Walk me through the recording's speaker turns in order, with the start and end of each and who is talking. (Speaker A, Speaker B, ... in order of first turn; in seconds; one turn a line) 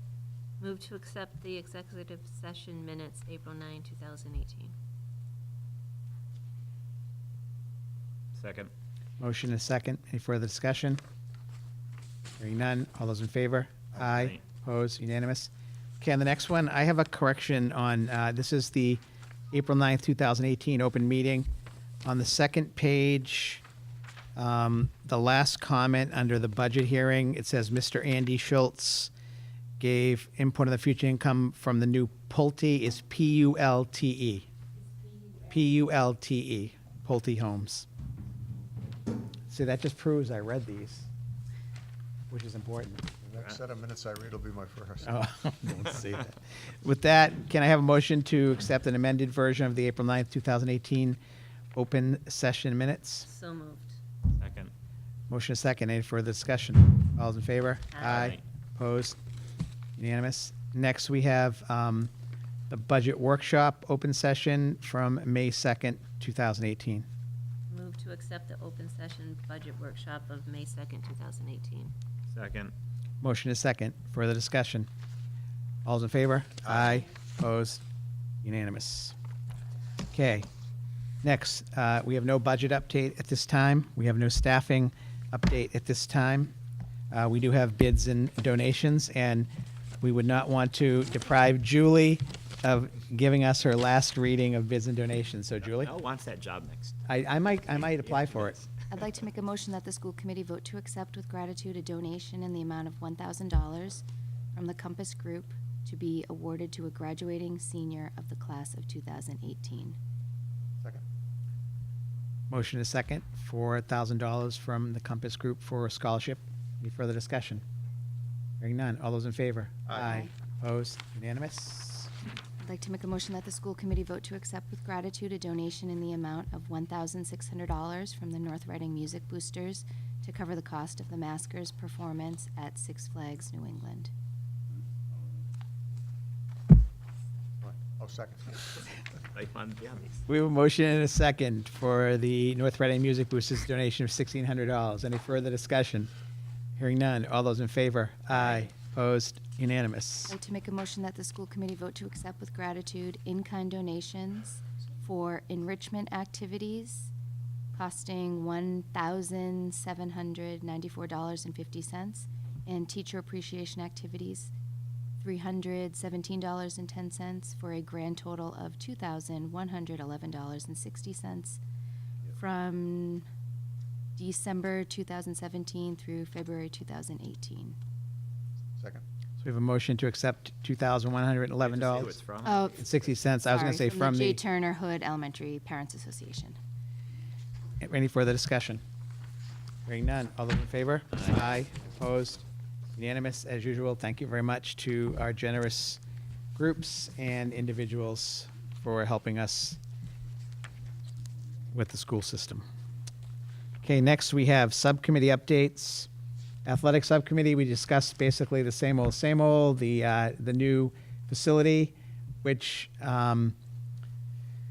Speaker A: 0.6-4.7
Speaker B: 8.3-8.7
Speaker C: 9.2-11.0
Speaker C: 12.4-21.5
Speaker B: 14.1-14.4
Speaker C: 22.0-23.6
Speaker C: 24.4-29.1
Speaker C: 29.8-34.5
Speaker C: 35.4-37.9
Speaker C: 39.5-41.1
Speaker C: 42.3-43.1
Speaker D: 43.2-45.2
Speaker C: 45.0-51.2
Speaker C: 51.7-53.3
Speaker A: 53.3-54.0
Speaker B: 54.4-54.7
Speaker C: 55.3-59.2
Speaker A: 58.0-58.2
Speaker B: 58.0-58.4
Speaker C: 60.0-62.1
Speaker C: 62.7-67.1
Speaker A: 67.7-71.9
Speaker B: 72.3-72.7
Speaker C: 73.2-74.9
Speaker C: 75.8-77.8
Speaker C: 78.4-79.2
Speaker C: 80.1-80.5
Speaker C: 81.2-86.5
Speaker C: 87.1-89.5
Speaker C: 90.0-95.9
Speaker B: 95.6-97.0
Speaker C: 97.1-98.6
Speaker B: 97.7-99.2
Speaker E: 98.9-104.0
Speaker E: 104.5-110.0
Speaker C: 112.5-117.6
Speaker C: 118.6-122.1
Speaker E: 119.9-120.3
Speaker E: 122.6-134.1
Speaker D: 137.6-138.8
Speaker B: 139.3-140.2
Speaker C: 140.3-146.1
Speaker C: 146.8-150.4
Speaker E: 150.3-157.1
Speaker E: 157.7-164.5
Speaker E: 165.2-171.6
Speaker E: 172.4-173.2
Speaker E: 174.2-177.8
Speaker D: 178.8-179.0
Speaker C: 179.4-182.2
Speaker B: 181.6-182.7
Speaker E: 182.4-182.8
Speaker C: 182.7-184.4
Speaker E: 183.5-186.6
Speaker C: 187.8-188.8
Speaker C: 189.9-192.4
Speaker C: 193.0-196.0
Speaker C: 196.6-199.8
Speaker C: 201.7-202.7
Speaker C: 203.8-206.1
Speaker C: 206.7-213.6